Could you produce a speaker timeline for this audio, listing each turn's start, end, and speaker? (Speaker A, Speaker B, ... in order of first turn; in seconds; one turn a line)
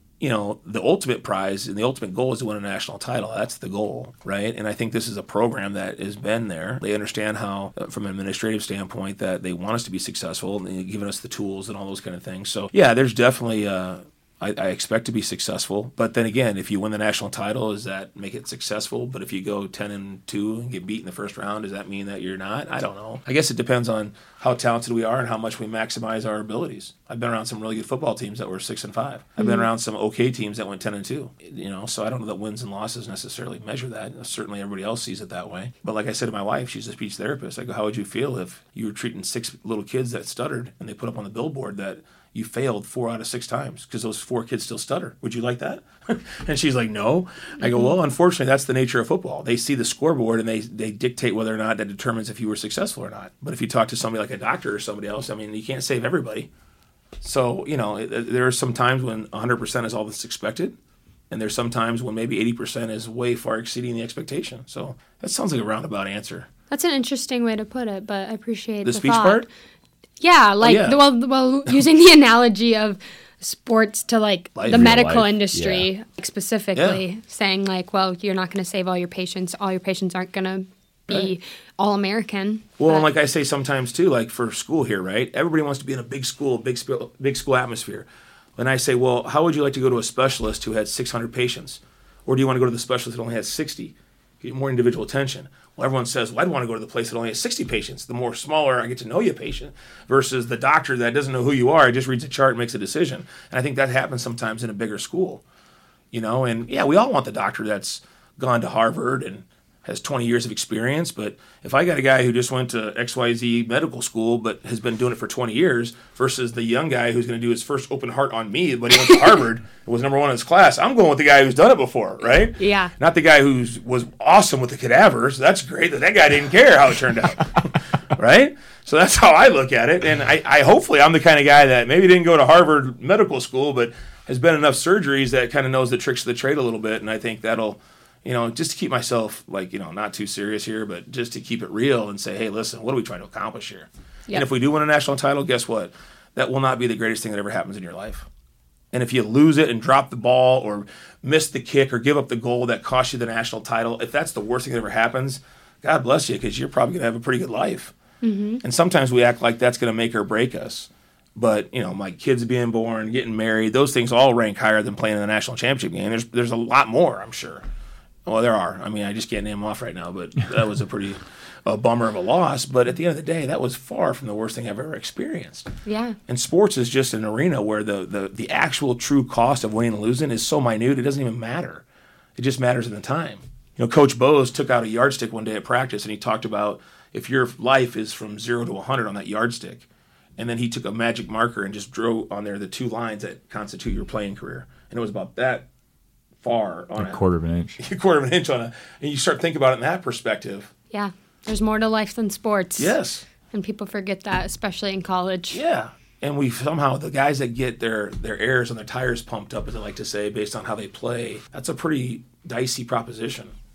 Speaker A: 0.2-56.5
Speaker B: 29.4-29.7
Speaker B: 47.6-47.9
Speaker A: 57.2-60.8
Speaker A: 61.3-66.5
Speaker B: 66.7-69.5
Speaker A: 68.8-69.5
Speaker B: 70.2-83.0
Speaker A: 70.6-71.0
Speaker A: 74.5-75.2
Speaker C: 74.7-75.9
Speaker A: 76.8-77.0
Speaker A: 82.8-105.4
Speaker A: 106.1-148.3
Speaker B: 122.6-122.9
Speaker A: 148.9-157.9
Speaker B: 158.2-158.6
Speaker A: 158.6-167.6
Speaker A: 168.2-175.7
Speaker B: 175.8-176.2
Speaker A: 176.3-181.8
Speaker A: 182.3-195.7
Speaker A: 196.4-197.2
Speaker C: 197.0-197.8
Speaker A: 197.8-200.7
Speaker B: 200.9-202.9
Speaker A: 202.8-203.2
Speaker B: 203.5-205.6
Speaker A: 205.5-213.5